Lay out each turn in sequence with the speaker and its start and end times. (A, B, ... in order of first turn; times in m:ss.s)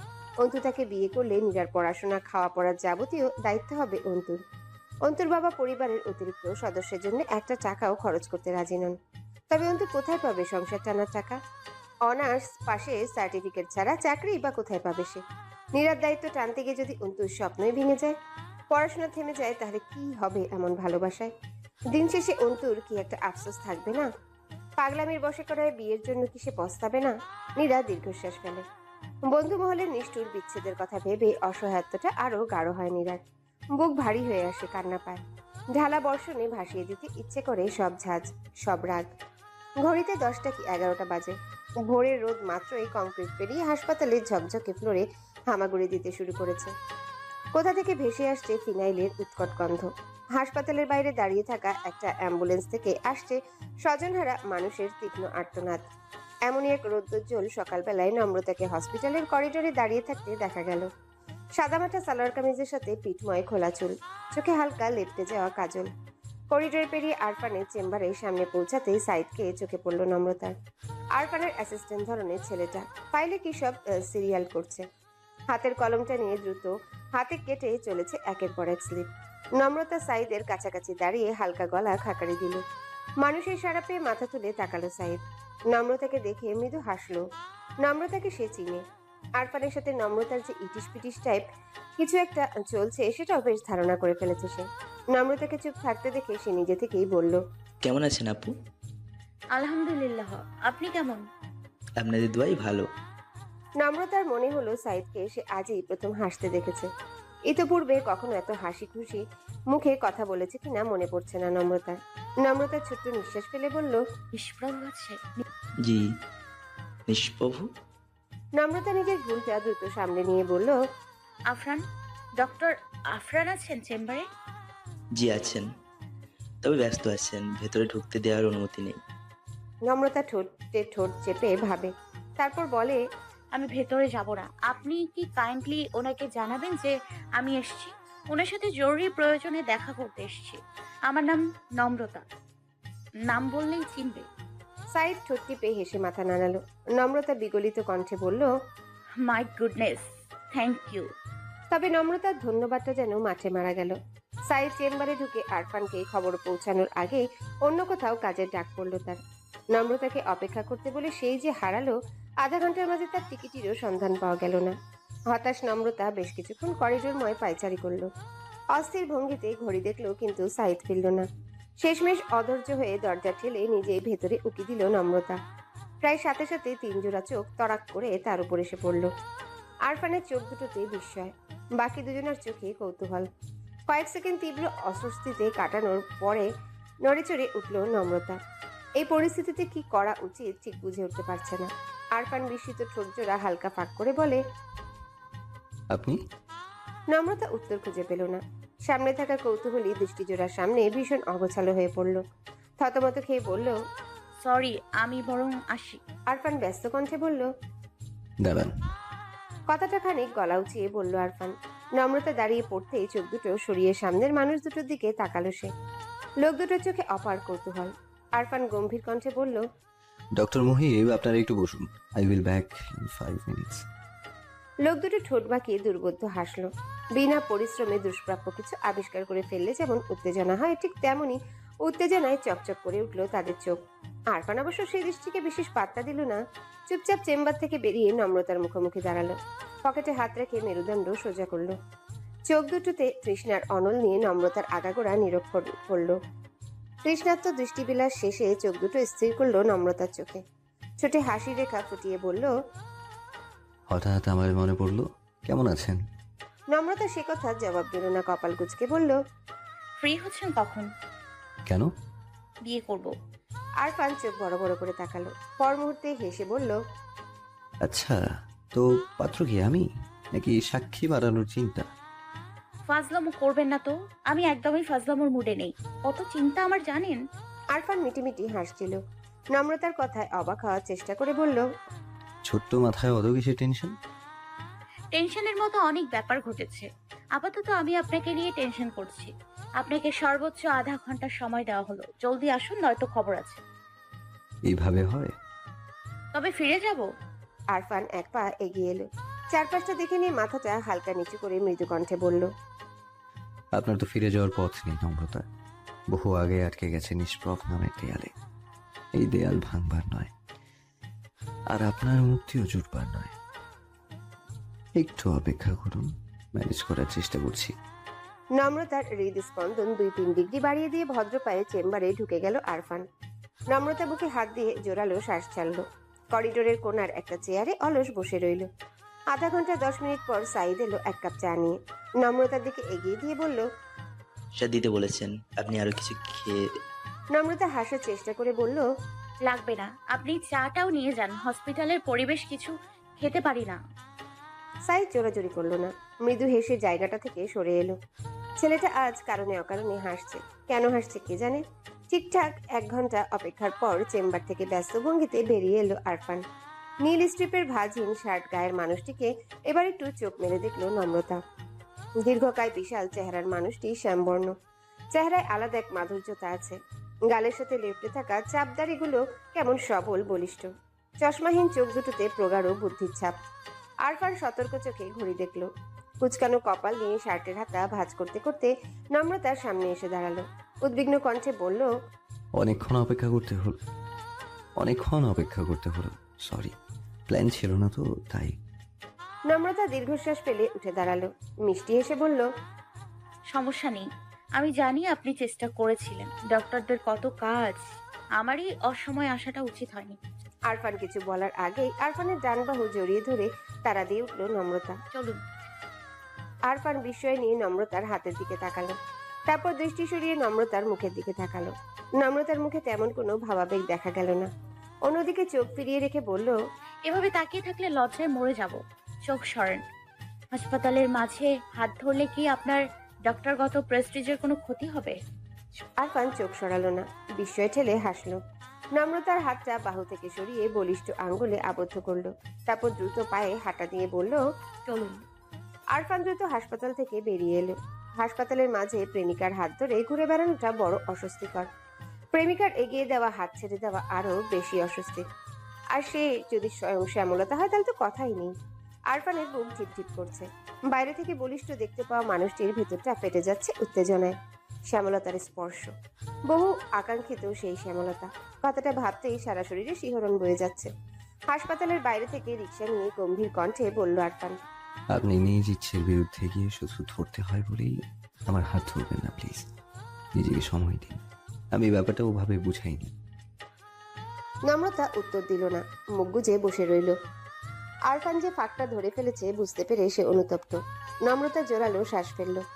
0:00.4-0:04.4 A
0:05.0-0:09.0 A
0:09.5-0:11.4 A
0:12.0-0:15.2 A
0:15.7-0:18.1 A
0:18.7-0:21.3 A
0:21.9-0:24.1 A
0:24.8-0:28.6 A
0:29.2-0:33.2 A
0:33.7-0:35.2 A
0:35.7-0:39.1 A
0:39.8-0:41.3 A
0:41.9-0:46.7 A
0:47.5-0:55.8 A
0:56.4-1:00.9 A
1:01.6-1:05.9 A
1:06.5-1:10.5 A
1:11.1-1:14.8 A
1:15.5-1:19.0 A
1:19.6-1:22.6 A
1:23.2-1:25.2 A
1:25.7-1:27.2 A
1:27.8-1:28.8 A
1:29.4-1:31.4 A
1:32.0-1:37.4 A
1:37.8-1:38.5 B
1:39.5-1:41.2 C
1:42.0-1:42.9 B
1:43.8-1:46.9 A
1:47.5-1:54.0 A
1:54.3-1:55.4 C
1:57.1-1:57.7 B
1:58.6-2:00.8 A
2:01.5-2:01.8 C
2:02.4-2:04.2 C
2:05.2-2:05.7 B
2:06.6-2:09.0 B
2:09.9-2:13.0 A
2:13.5-2:22.2 C
2:23.3-2:24.2 C
2:24.9-2:28.5 A
2:29.2-2:31.1 C
2:31.7-2:34.0 A
2:34.5-2:39.2 A
2:39.7-2:44.7 A
2:45.3-2:48.1 A
2:48.7-2:51.2 A
2:51.8-2:55.4 A
2:56.0-2:59.1 A
2:59.8-3:03.3 A
3:03.9-3:06.5 A
3:07.0-3:08.4 A
3:09.0-3:14.4 A
3:15.9-3:16.2 D
3:17.1-3:22.2 A
3:22.8-3:23.7 A
3:24.4-3:26.0 C
3:26.3-3:27.5 A
3:28.4-3:28.7 D
3:29.7-3:35.7 A
3:36.4-3:39.6 A
3:40.4-3:43.8 D
3:44.8-3:53.8 A
3:54.3-4:01.7 A
4:02.5-4:06.2 A
4:07.0-4:10.4 A
4:11.0-4:12.5 A
4:13.9-4:16.0 D
4:16.7-4:19.2 A
4:20.0-4:20.9 C
4:22.6-4:23.1 C
4:23.8-4:26.8 A
4:27.8-4:28.2 D
4:28.7-4:31.9 D
4:32.9-4:37.2 C
4:37.7-4:39.0 A
4:39.5-4:41.6 A
4:42.4-4:43.9 D
4:45.1-4:53.6 C
4:54.7-4:55.3 D
4:56.3-4:57.1 C
4:57.7-5:02.5 A
5:03.8-5:05.4 D
5:06.1-5:08.3 D
5:09.2-5:10.3 D
5:11.7-5:13.3 D
5:15.0-5:17.7 D
5:18.5-5:23.0 A
5:23.7-5:28.7 A
5:29.3-5:33.6 A
5:34.6-5:36.6 B
5:37.3-5:38.8 A
5:39.4-5:43.8 C
5:44.8-5:48.0 A
5:48.6-5:56.4 A
5:57.0-6:01.4 A
6:02.2-6:04.5 A
6:05.1-6:06.8 A
6:07.3-6:10.7 A
6:11.2-6:13.3 A
6:14.0-6:15.7 A
6:16.2-6:21.9 A
6:22.6-6:23.7 D
6:24.8-6:26.7 D
6:27.3-6:28.5 D
6:29.5-6:32.4 A
6:33.5-6:34.0 C
6:34.6-6:37.8 C
6:38.4-6:40.2 C
6:40.7-6:45.0 A
6:45.1-6:45.4 C
6:46.7-6:49.0 A
6:49.5-6:54.5 A
6:55.0-6:56.6 A
6:57.0-6:59.8 C
7:00.5-7:05.2 C
7:06.0-7:08.4 A
7:08.9-7:14.4 A
7:14.8-7:15.2 C
7:15.9-7:21.7 A
7:22.3-7:25.2 A
7:25.9-7:28.5 A
7:29.1-7:34.4 A
7:34.9-7:35.9 A
7:36.5-7:40.9 A
7:41.5-7:44.6 A
7:45.1-7:47.9 D
7:48.5-7:49.6 D
7:50.4-7:51.2 D
7:51.7-7:53.1 D
7:54.7-7:57.2 A
7:58.1-8:02.6 A